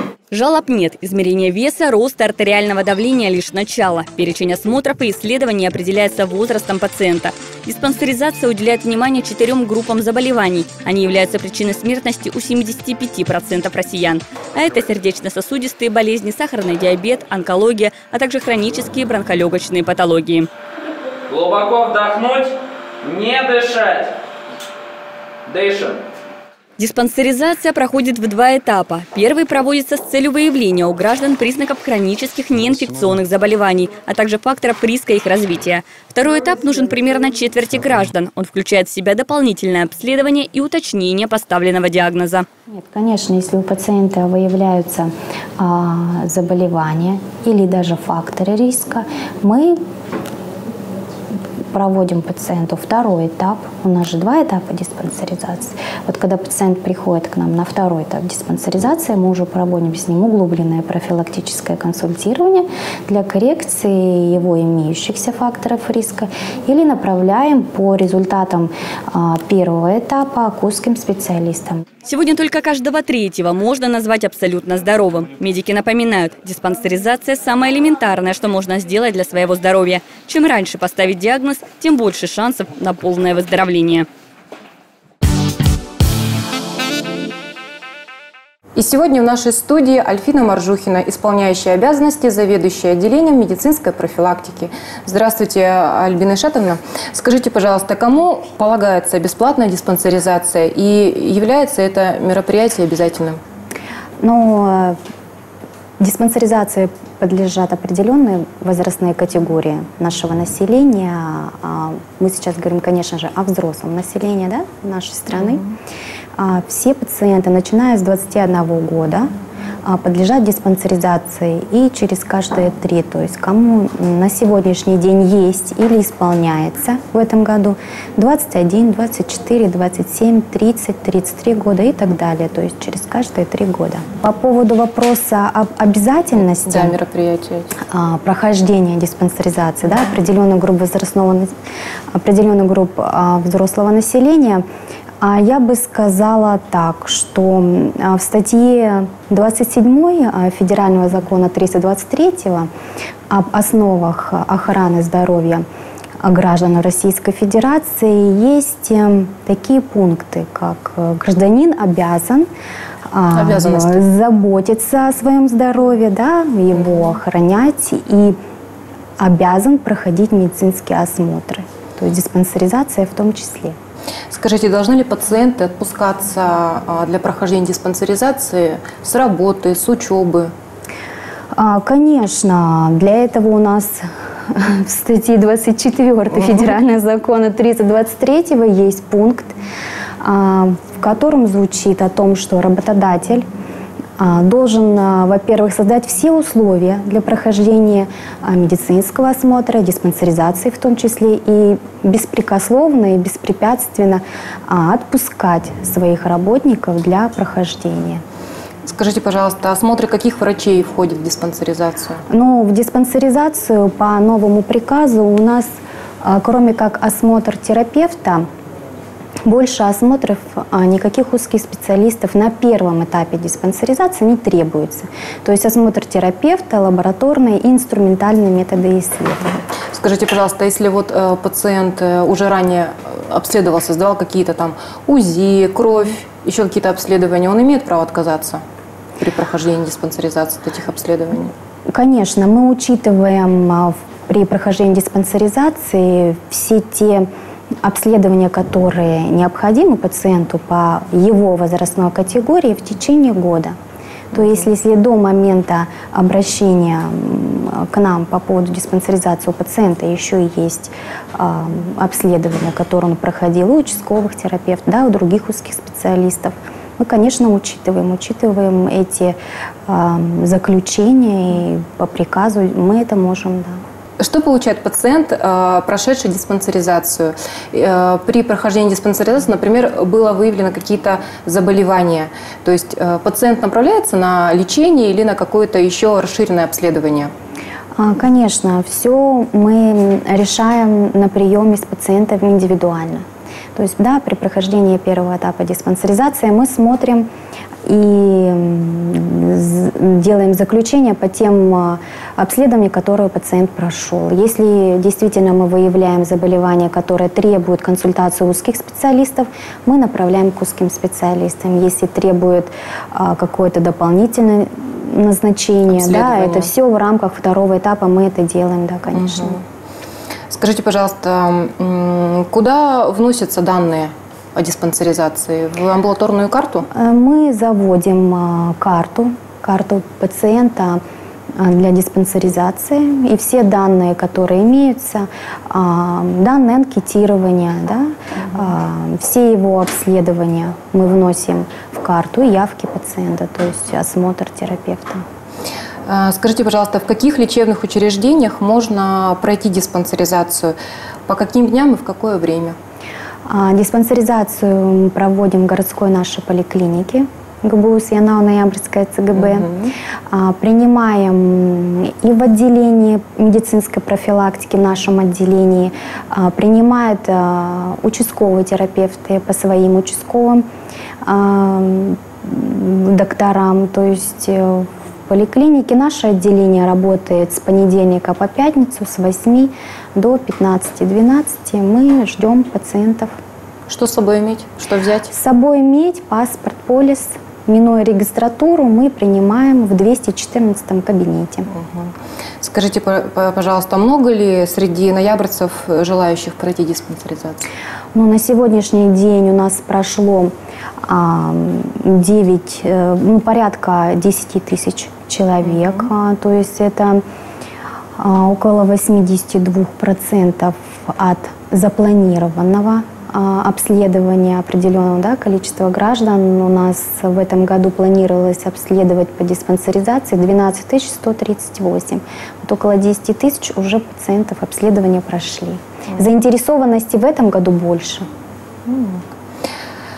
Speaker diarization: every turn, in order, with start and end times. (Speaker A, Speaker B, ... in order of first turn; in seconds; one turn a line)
Speaker A: 0.3-20.5
Speaker B: 21.3-22.5
Speaker B: 23.0-24.1
Speaker B: 25.5-26.0
Speaker A: 26.8-42.5
Speaker C: 42.7-49.8
Speaker C: 51.7-71.8
Speaker A: 72.0-84.0
Speaker D: 88.8-103.4
Speaker C: 104.2-105.0
Speaker C: 106.0-115.6
Speaker C: 116.4-119.3
Speaker C: 119.8-136.9
Speaker D: 136.4-137.7
Speaker C: 137.9-141.5
Speaker C: 142.1-144.6
Speaker C: 145.2-152.7
Speaker C: 153.3-155.6
Speaker C: 156.2-162.5
Speaker C: 163.1-168.4
Speaker D: 163.3-164.0
Speaker C: 169.2-173.8
Speaker D: 174.3-180.5
Speaker C: 181.5-189.5
Speaker C: 190.2-193.4
Speaker C: 194.2-208.2
Speaker D: 208.8-212.2
Speaker C: 212.3-218.4
Speaker C: 219.4-229.6
Speaker D: 229.9-238.6
Speaker D: 239.2-241.5
Speaker C: 241.9-247.3
Speaker C: 247.8-253.8
Speaker C: 254.3-273.8
Speaker D: 274.2-287.3
Speaker C: 288.0-297.3
Speaker C: 297.8-319.6
Speaker D: 315.9-316.7
Speaker D: 319.1-319.6
Speaker D: 320.5-326.9
Speaker C: 326.9-331.0
Speaker C: 331.6-345.2
Speaker D: 346.1-350.8
Speaker D: 351.3-352.8
Speaker C: 353.4-359.7
Speaker D: 359.3-359.9
Speaker C: 360.3-370.6
Speaker C: 371.2-383.4
Speaker D: 383.9-385.3
Speaker C: 385.3-391.7
Speaker D: 391.7-397.6
Speaker C: 398.1-407.2
Speaker D: 405.6-406.0
Speaker C: 408.2-428.3
Speaker D: 428.9-429.2